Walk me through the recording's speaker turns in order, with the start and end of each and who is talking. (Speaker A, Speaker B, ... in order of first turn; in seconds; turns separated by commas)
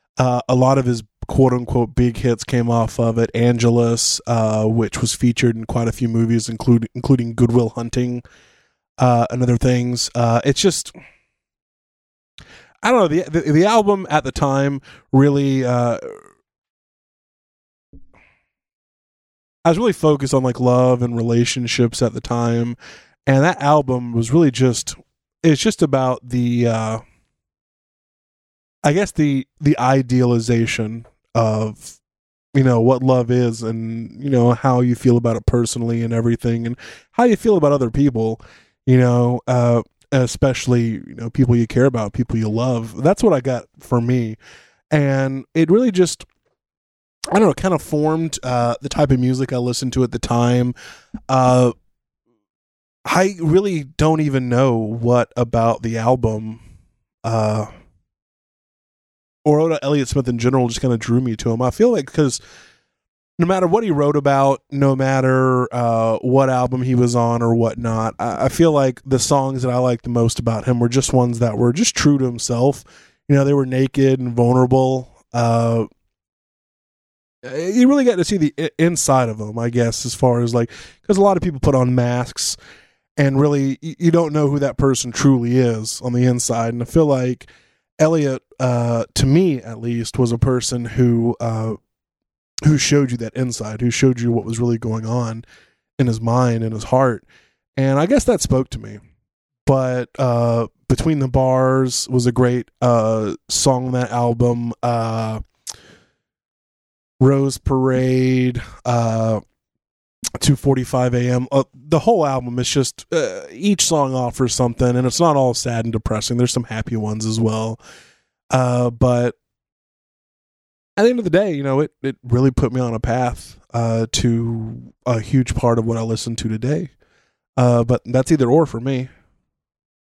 Speaker A: 0.2-8.2, Speaker A: 9.0-10.9, Speaker A: 12.8-16.2, Speaker A: 19.6-27.0, Speaker A: 28.8-32.0, Speaker A: 32.5-44.4, Speaker A: 44.9-46.3, Speaker A: 47.3-50.7, Speaker A: 51.3-51.7, Speaker A: 53.0-56.6, Speaker A: 57.2-57.7, Speaker A: 59.4-62.4, Speaker A: 63.4-75.9, Speaker A: 77.4-82.6, Speaker A: 83.2-87.5, Speaker A: 88.0-91.8, Speaker A: 92.6-95.4, Speaker A: 96.0-97.2, Speaker A: 97.8-99.0, Speaker A: 99.7-105.4, Speaker A: 107.2-109.4, Speaker A: 110.4-117.8, Speaker A: 118.5-119.3, Speaker A: 121.0-126.9, Speaker A: 127.6-129.1